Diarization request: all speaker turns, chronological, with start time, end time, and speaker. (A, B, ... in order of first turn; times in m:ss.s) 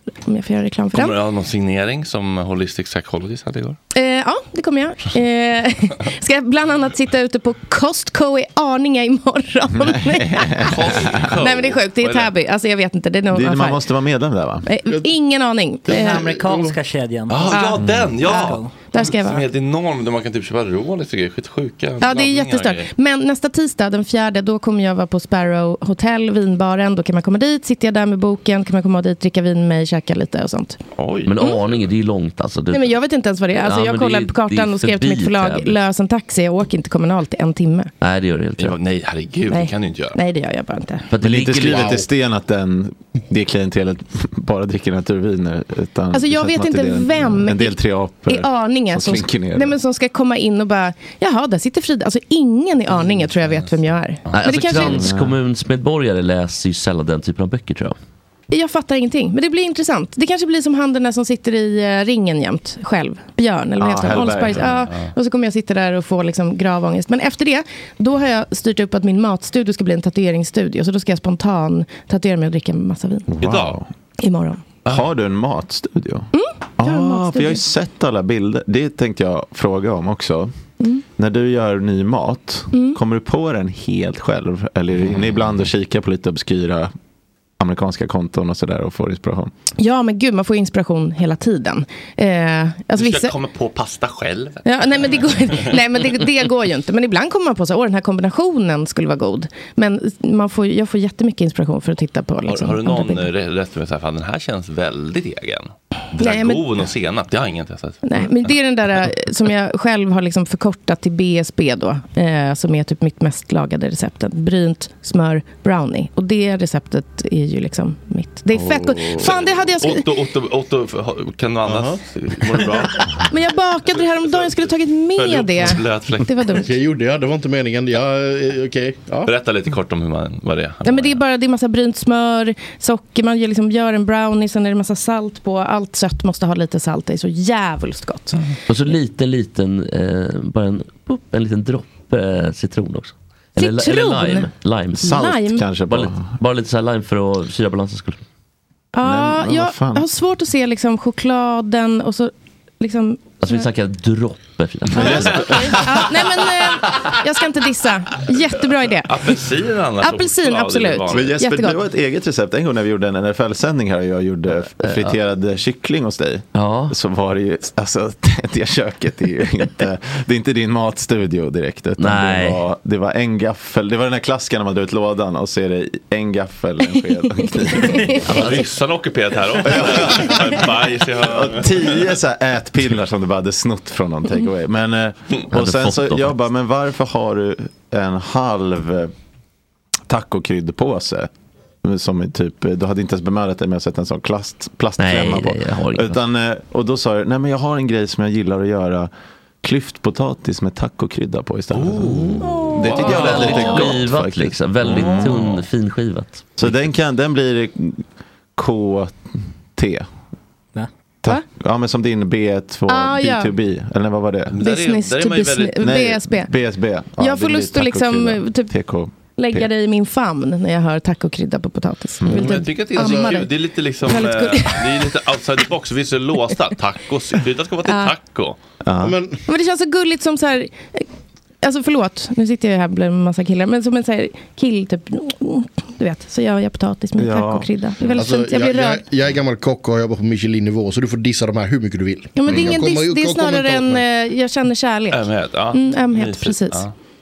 0:00.2-0:01.2 A
0:00.9-0:03.8 B
0:03.9-0:10.9 A
0:09.7-0:11.1 C
0:10.7-0:12.3 B
0:11.4-0:13.8 A
0:13.3-0:14.7 C
0:14.6-0:16.2 A
0:15.9-0:18.8 D
0:15.9-0:16.7 E
0:17.3-0:22.9 B
0:17.5-0:19.4 A
0:17.8-0:18.1 C
0:22.0-0:30.8 A
0:31.0-0:31.8 B
0:31.3-0:33.0 F
0:32.7-0:37.9 A
0:33.6-0:35.8 F
0:38.0-0:38.8 F
0:38.6-0:40.2 B
0:39.5-0:41.1 A
0:41.1-0:42.0 F
0:41.2-0:49.8 C
0:41.7-0:42.0 E
0:46.1-0:55.1 A
0:54.3-0:58.0 F
0:54.8-0:55.4 C
0:58.5-1:13.3 A
1:03.8-1:04.8 C
1:04.6-1:05.1 B
1:13.3-1:13.9 C
1:13.4-1:13.8 B
1:14.2-1:14.6 A
1:14.9-1:20.5 C
1:16.3-1:17.6 A
1:21.2-1:26.9 C
1:22.7-1:23.0 A
1:27.6-1:29.5 C
1:29.8-1:33.3 A
1:33.0-1:35.7 B
1:34.6-1:43.3 A
1:42.4-1:48.5 B
1:46.2-1:46.7 A
1:48.0-2:00.1 A
1:59.2-2:03.1 B
2:01.6-2:02.0 E
2:03.3-2:06.7 A
2:03.9-2:06.6 B
2:06.6-2:09.3 E
2:09.2-2:11.2 B
2:10.8-2:18.4 A
2:18.7-2:25.2 F
2:23.6-2:24.5 A
2:24.9-2:26.3 C
2:25.0-2:25.6 A
2:25.8-2:28.2 F
2:28.9-2:33.6 A
2:29.0-2:30.0 C
2:33.4-2:35.5 F
2:34.9-2:36.0 C
2:35.0-2:39.3 A
2:39.1-2:41.3 B
2:40.0-2:41.8 A
2:41.1-2:58.2 C
2:44.8-2:45.2 F
2:46.5-2:46.9 F
2:52.0-2:52.6 F
2:57.4-2:58.2 A
2:58.2-3:02.1 B
2:59.6-3:00.5 C
3:01.2-3:09.1 C
3:05.5-3:06.4 F
3:10.1-3:11.3 C
3:11.8-3:19.1 C
3:15.0-3:16.2 F
3:19.6-3:25.4 C
3:21.7-3:24.0 B
3:22.2-3:22.4 F
3:23.0-3:26.4 F
3:24.9-3:25.6 B
3:26.6-3:28.0 C
3:28.6-3:29.2 C
3:29.7-3:30.1 C
3:31.2-3:34.6 C
3:32.9-3:33.6 A
3:34.5-3:35.8 B
3:34.6-3:36.5 A
3:35.8-3:39.7 C
3:37.2-3:38.7 A
3:39.4-3:45.0 A
3:42.2-3:42.5 C
3:42.3-3:48.6 B
3:43.0-3:43.3 E
3:47.9-3:48.1 A
3:48.8-3:49.2 C
3:49.0-3:49.4 E
3:49.5-3:51.0 A
3:51.6-3:59.0 A
3:57.2-3:57.7 C
3:58.2-4:04.0 E
4:02.4-4:06.8 A
4:05.1-4:06.9 B